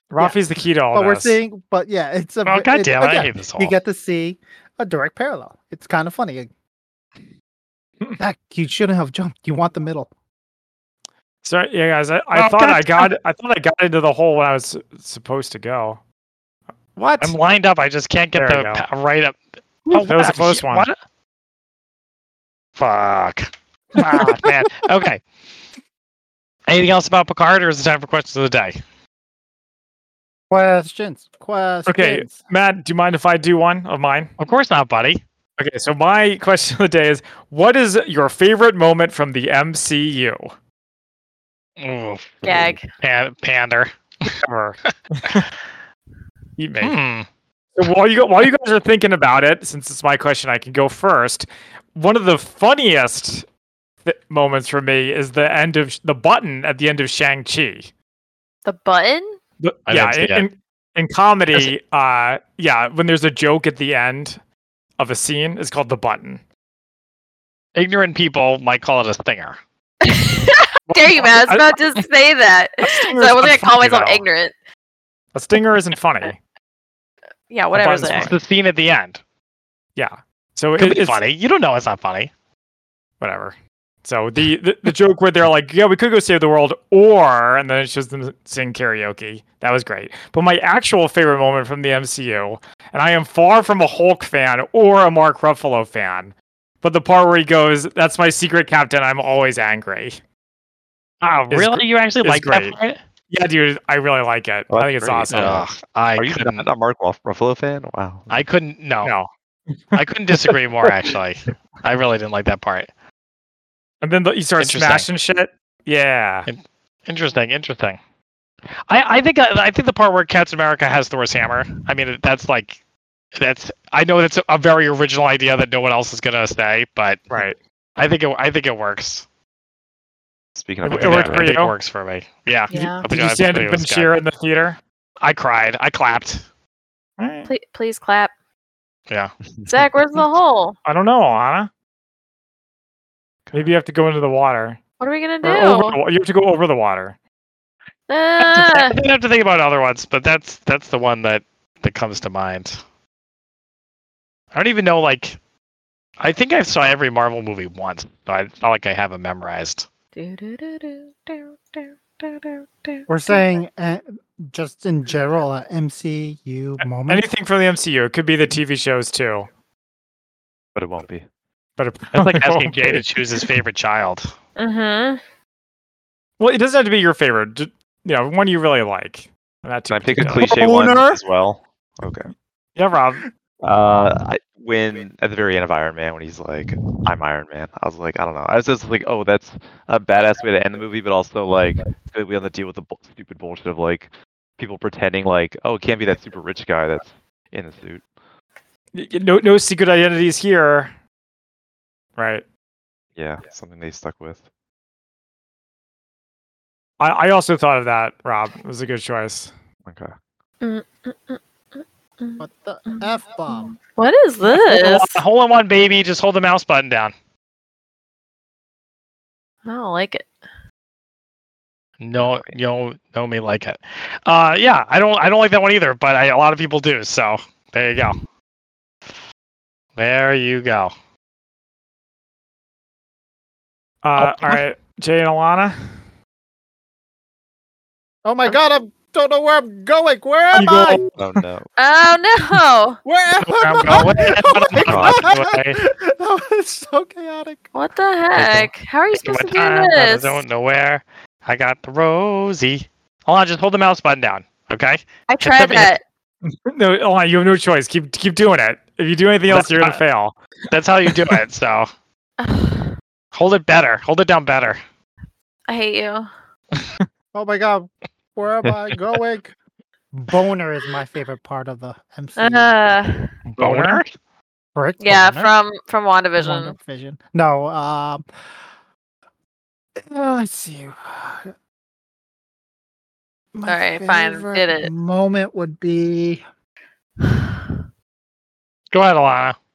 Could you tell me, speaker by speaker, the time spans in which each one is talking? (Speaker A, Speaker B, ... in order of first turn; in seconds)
Speaker A: 0.1-1.4, 11.4-16.0, 16.9-17.3, 18.4-18.8, 19.9-20.9, 31.9-34.3, 35.6-40.5, 44.3-45.4, 46.6-47.0, 47.8-53.5, 54.0-57.9, 59.6-64.4, 65.0-66.4, 70.9-72.0, 72.8-74.2, 75.3-76.4, 77.7-78.3, 80.0-81.2, 83.2-100.2, 101.5-102.8, 103.3-105.6, 109.0-109.3, 114.0-116.5, 127.3-127.6, 130.8-131.7, 133.1-134.8, 137.2-137.5, 140.8-141.7, 143.5-144.8, 145.4-147.2, 166.8-169.5, 171.8-173.1, 176.4-180.5, 198.9-200.9, 202.2-202.4, 207.0-209.5, 234.0-236.0, 240.5-241.1, 256.5-260.4, 261.1-261.4, 273.6-274.0
Speaker B: 0.9-6.5, 8.2-10.1, 30.5-32.4, 163.1-167.3, 180.3-181.2, 212.4-213.7, 238.2-241.1, 243.0-247.7, 267.3-269.5, 270.1-272.7, 274.7-275.5, 276.4-278.2, 279.9-281.5, 283.5-286.4
Speaker C: 2.5-3.7, 12.3-13.1, 17.2-20.9, 22.8-25.2, 26.7-28.8, 34.4-35.2, 41.8-42.5, 43.0-44.3, 46.8-47.3, 59.9-60.4, 67.7-69.6, 78.0-79.2, 80.8-82.3, 101.2-103.0, 105.3-106.7, 108.3-109.1, 109.9-112.9, 114.6-115.1, 116.5-118.0, 118.9-122.8, 123.3-127.4, 128.0-129.2, 130.9-134.1, 135.2-136.4, 139.1-139.3, 148.4-152.8, 154.5-155.4, 156.2-159.9, 172.1-174.3, 180.2-180.5, 182.8-183.2, 214.5-217.1, 222.0-228.2, 230.0-230.9, 243.4-245.8, 249.1-255.9, 259.5-260.0, 260.7-261.9, 263.3-264.8, 273.5-274.1, 288.9-289.6
Speaker D: 42.4-42.9, 58.6-59.4, 70.0-74.5, 77.5-78.3, 132.7-133.0, 137.5-138.3, 139.7-140.8, 145.0-146.0, 148.1-149.0, 160.2-163.4, 174.6-175.2, 210.6-215.2, 219.7-220.3, 241.8-243.0, 247.7-250.4, 255.3-256.0, 262.4-262.9, 265.7-266.3, 272.4-273.3, 275.0-276.7, 283.6-284.9, 287.2-287.7
Speaker E: 104.7-108.3, 130.5-131.5, 143.5-143.7, 170.7-171.2, 179.9-182.3, 183.6-198.0, 203.2-204.4, 209.8-210.1, 222.2-222.5, 234.2-234.5, 241.2-241.7, 244.8-245.2, 248.3-248.7